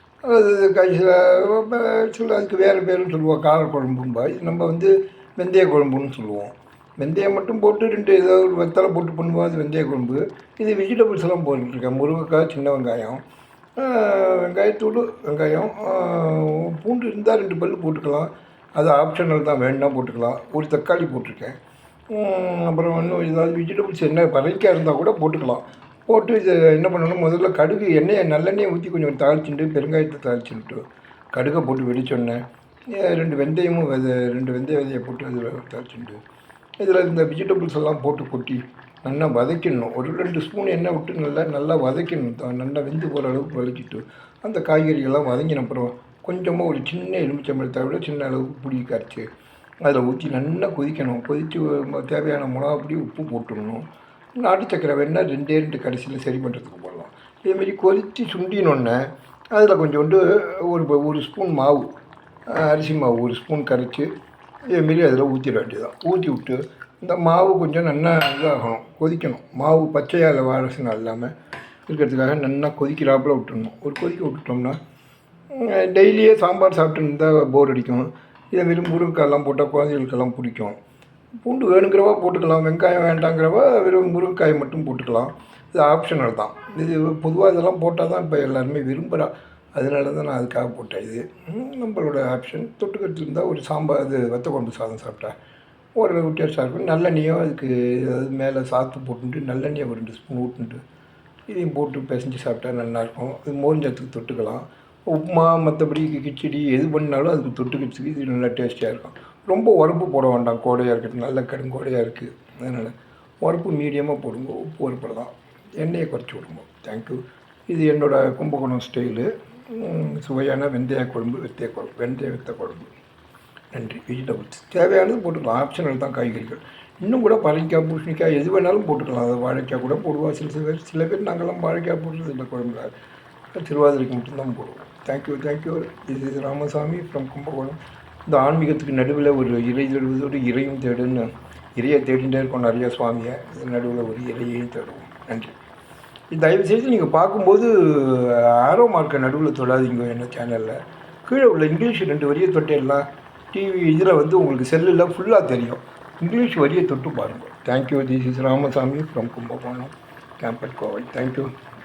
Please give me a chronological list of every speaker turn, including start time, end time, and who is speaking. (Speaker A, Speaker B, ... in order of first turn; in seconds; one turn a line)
Speaker A: 0.2-13.2
Speaker A: 13.8-21.6
Speaker A: 22.1-36.2
Speaker A: 36.8-49.3
Speaker A: 49.8-53.9
Speaker A: 54.4-61.9
Speaker A: 62.5-64.1
Speaker A: 64.7-71.3
Speaker A: 71.9-74.8
Speaker A: 75.5-80.8
Speaker A: 81.4-95.3
Speaker A: 96.0-100.8
Speaker A: 101.5-122.9
Speaker A: 123.7-132.9
Speaker A: 133.5-145.5
Speaker A: 146.3-161.5